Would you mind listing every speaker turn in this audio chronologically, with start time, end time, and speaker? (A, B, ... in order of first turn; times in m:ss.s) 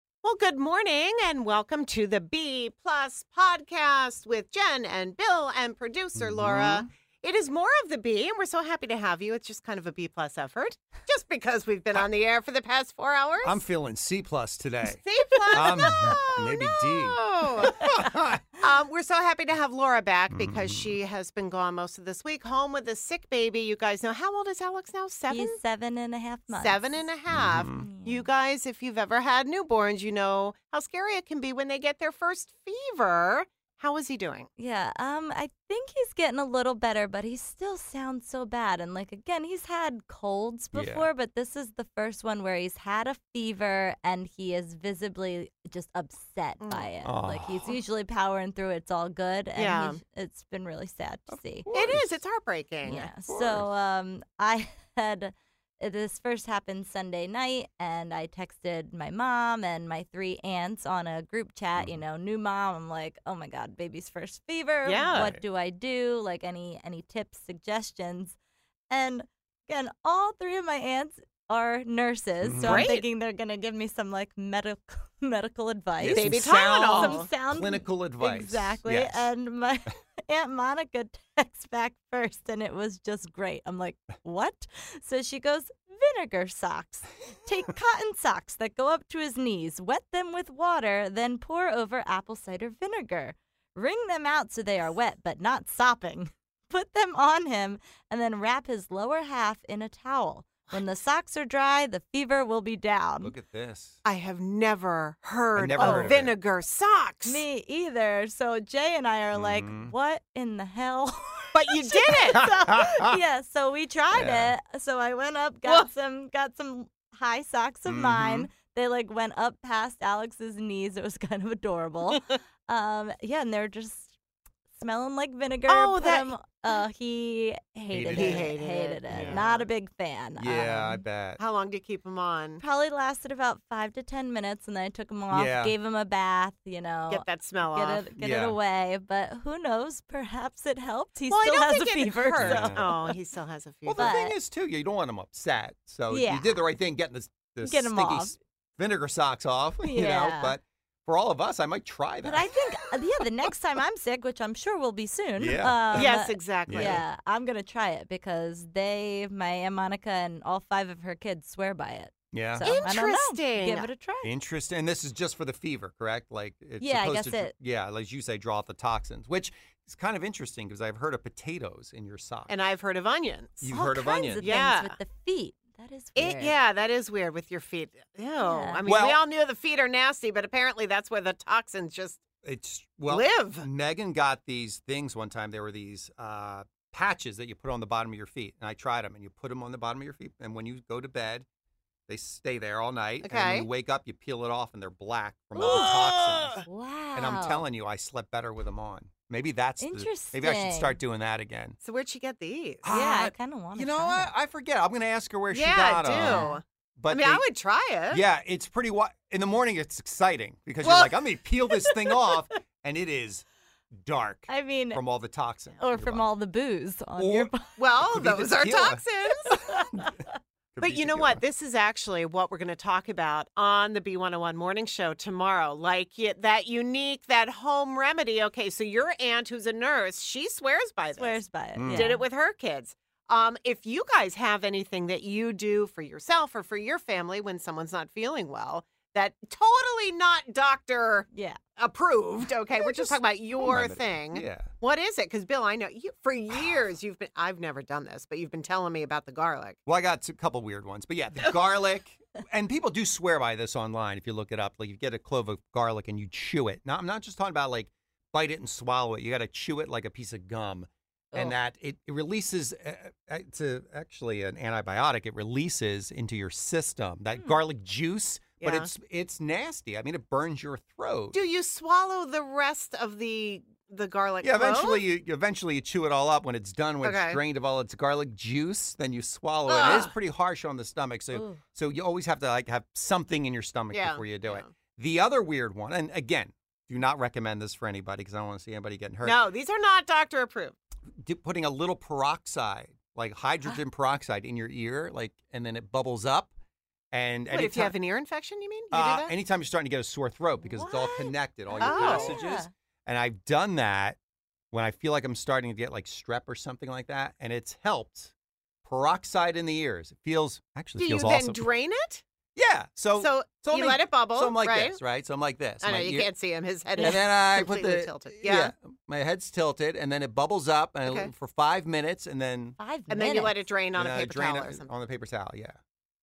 0:00.2-0:13.6 A
0:06.2-0:06.9 B
0:13.4-0:15.0 B
0:14.8-0:18.1 A
0:15.5-0:18.4 B
0:18.6-0:25.6 A
0:20.3-0:21.0 B
0:25.3-0:27.1 C
0:26.5-0:34.5 A
0:27.3-0:27.8 B
0:27.7-0:28.3 C
0:34.6-0:51.7 C
0:40.8-0:41.1 B
0:46.6-0:46.9 A
0:47.0-0:47.7 B
0:49.6-0:50.0 A
0:51.3-0:52.2 B
0:51.7-0:53.1 A
0:52.8-1:08.4 C
0:53.3-0:53.7 B
1:04.8-1:05.3 A
1:05.1-1:05.4 B
1:08.9-1:43.3 C
1:12.4-1:12.9 B
1:12.6-1:13.0 A
1:16.0-1:19.3 B
1:16.1-1:17.3 A
1:43.2-1:44.0 B
1:44.0-1:47.4 A
1:45.6-1:46.4 B
1:45.8-1:46.2 C
1:47.2-2:04.1 C
1:49.3-1:49.9 B
1:51.6-1:52.5 A
1:52.3-1:53.0 B
1:54.1-1:54.5 B
1:57.9-1:58.5 B
2:04.8-2:11.0 C
2:05.7-2:06.8 A
2:07.9-2:08.5 B
2:07.9-2:09.7 A
2:09.1-2:09.4 B
2:10.4-2:11.4 B
2:11.4-2:12.6 A
2:12.6-2:23.2 C
2:15.3-2:15.7 B
2:17.1-2:18.2 A
2:18.2-2:18.6 B
2:21.3-2:24.1 A
2:22.4-2:23.1 B
2:23.9-2:32.5 B
2:24.0-2:24.4 C
2:26.1-2:26.6 C
2:27.6-2:28.4 C
2:29.8-2:30.6 C
2:32.2-2:44.3 C
2:35.4-2:37.0 B
2:36.0-2:37.0 A
2:42.3-2:42.7 B
2:42.6-2:43.9 A
2:44.2-2:52.6 B
2:46.8-2:47.5 C
2:52.5-2:53.8 A
2:53.6-2:54.8 B
2:53.7-2:56.6 C
2:54.4-2:55.0 A
2:56.2-3:02.2 A
2:58.4-2:58.8 C
2:58.9-2:59.2 B
3:02.4-3:11.5 B
3:03.1-3:03.7 A
3:12.1-3:16.6 B
3:13.2-3:13.7 A
3:15.6-3:16.6 A
3:15.7-3:15.9 C
3:16.7-3:17.7 C
3:17.2-3:21.8 B
3:19.8-3:21.0 C
3:21.8-3:22.9 A
3:22.8-3:27.5 B
3:22.9-3:24.3 C
3:25.5-3:28.2 A
3:26.2-3:26.6 C
3:28.1-3:36.3 B
3:30.8-3:32.4 A
3:34.5-3:35.0 C
3:35.8-3:37.8 C
3:37.2-3:40.0 B
3:37.8-3:39.6 A
3:39.5-3:40.1 C
3:40.7-3:41.4 B
3:40.8-4:09.8 A
3:51.2-3:52.2 C
3:51.8-3:52.2 B
4:01.3-4:01.6 C
4:02.8-4:04.7 B
4:09.9-4:31.4 B
4:28.6-4:28.9 A
4:31.3-4:35.1 A
4:34.4-4:49.4 B
4:37.0-4:37.4 A
4:39.7-4:40.1 A
4:41.3-4:41.6 C
4:43.9-4:44.7 A
4:49.2-4:50.8 A
4:51.2-4:56.5 B
4:57.1-4:58.0 B
4:57.5-4:59.3 A
4:58.9-5:04.2 B
5:00.6-5:02.7 C
5:01.8-5:02.4 A
5:04.7-5:08.3 B
5:08.8-5:11.7 B
5:11.0-5:12.2 A
5:12.6-5:16.3 B
5:13.2-5:15.0 A
5:15.8-5:18.7 A
5:17.0-5:22.8 B
5:21.0-5:21.3 A
5:22.8-5:23.7 C
5:23.1-5:24.9 A
5:23.9-5:25.8 B